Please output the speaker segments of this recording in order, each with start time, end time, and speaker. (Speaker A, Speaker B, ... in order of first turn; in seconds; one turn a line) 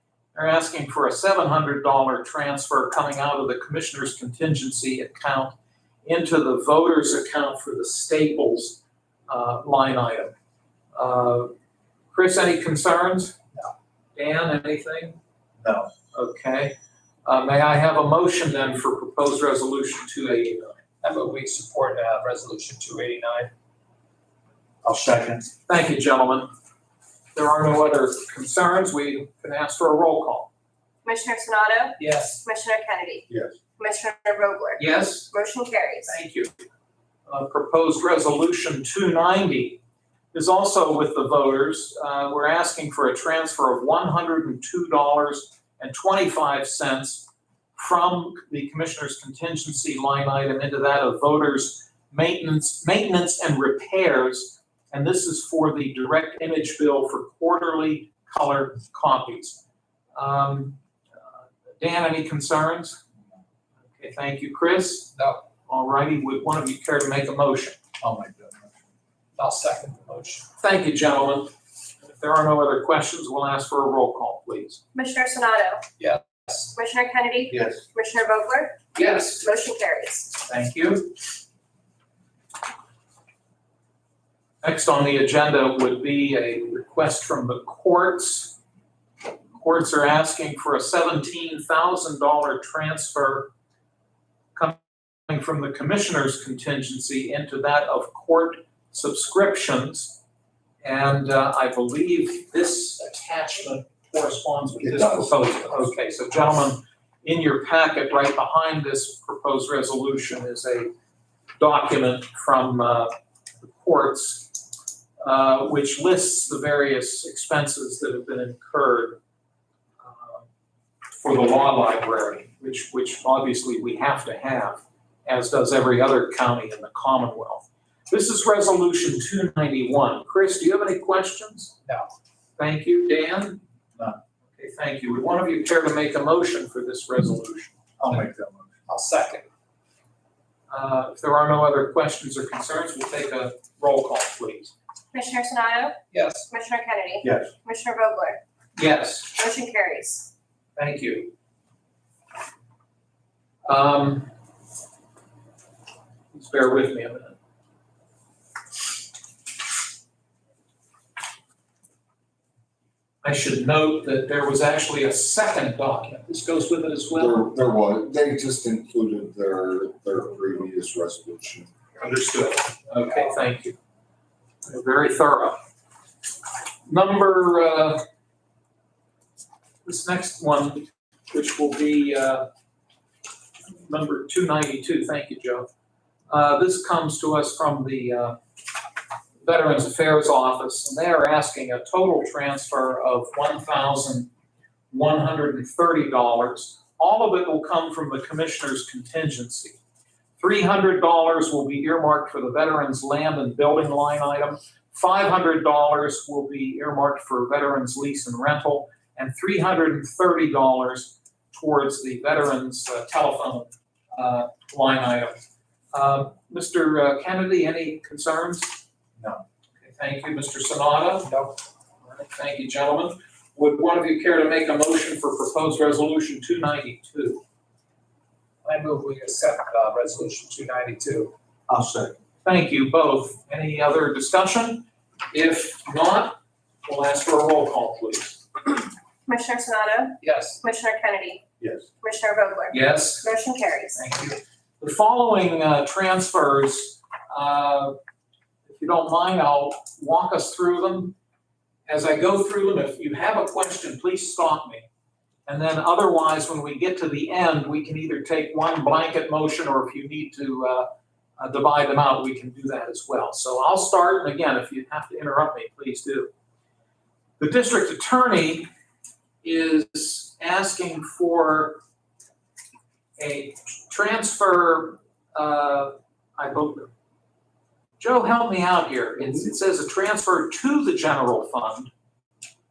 Speaker A: 0.3-10.3
Speaker A: 10.9-11.5
Speaker A: 12.1-13.4
Speaker A: 14.2-15.2
Speaker B: 15.6-15.9
Speaker A: 16.1-20.8
Speaker C: 21.0-23.5
Speaker B: 24.8-25.5
Speaker A: 25.7-26.5
Speaker A: 27.4-30.5
Speaker D: 31.1-36.2
Speaker C: 32.0-32.4
Speaker A: 34.8-35.3
Speaker A: 36.1-36.5
Speaker A: 37.3-39.8
Speaker A: 40.3-59.6
Speaker A: 60.1-63.0
Speaker A: 64.0-67.8
Speaker B: 68.0-68.6
Speaker C: 69.4-70.5
Speaker A: 70.6-74.8
Speaker D: 74.9-75.9
Speaker C: 76.0-76.7
Speaker D: 76.7-80.4
Speaker B: 77.5-77.8
Speaker A: 79.0-79.4
Speaker A: 80.4-81.2
Speaker A: 84.6-88.6
Speaker A: 89.5-93.5
Speaker A: 94.5-100.2
Speaker A: 100.8-110.9
Speaker E: 104.8-105.3
Speaker A: 111.6-114.6
Speaker A: 115.2-119.2
Speaker A: 120.0-120.5
Speaker A: 121.2-131.8
Speaker A: 132.6-133.6
Speaker A: 134.5-137.8
Speaker B: 138.0-138.7
Speaker C: 138.9-139.4
Speaker A: 140.7-144.7
Speaker D: 145.1-148.4
Speaker C: 146.1-146.5
Speaker B: 147.2-147.5
Speaker A: 148.8-149.4
Speaker D: 149.3-150.3
Speaker A: 150.8-151.3
Speaker A: 153.7-154.3
Speaker A: 156.3-157.3
Speaker A: 163.2-167.4
Speaker E: 167.2-171.7
Speaker A: 172.0-173.8
Speaker A: 174.7-175.6
Speaker A: 176.9-178.1
Speaker A: 179.8-182.5
Speaker A: 183.7-185.7
Speaker A: 186.3-188.4
Speaker A: 189.4-194.3
Speaker A: 194.9-199.8
Speaker A: 200.4-215.4
Speaker A: 215.9-218.8
Speaker A: 219.8-221.5
Speaker C: 221.2-221.5
Speaker A: 222.0-227.4
Speaker C: 228.7-231.3
Speaker B: 231.7-232.1
Speaker A: 232.4-238.5
Speaker D: 239.3-241.5
Speaker C: 240.2-240.6
Speaker D: 242.0-244.0
Speaker A: 242.7-243.3
Speaker A: 244.0-248.0
Speaker A: 248.7-251.2
Speaker A: 251.9-254.9
Speaker A: 255.5-266.3
Speaker A: 267.4-268.7
Speaker A: 269.4-271.8
Speaker A: 273.2-276.9
Speaker A: 278.0-281.9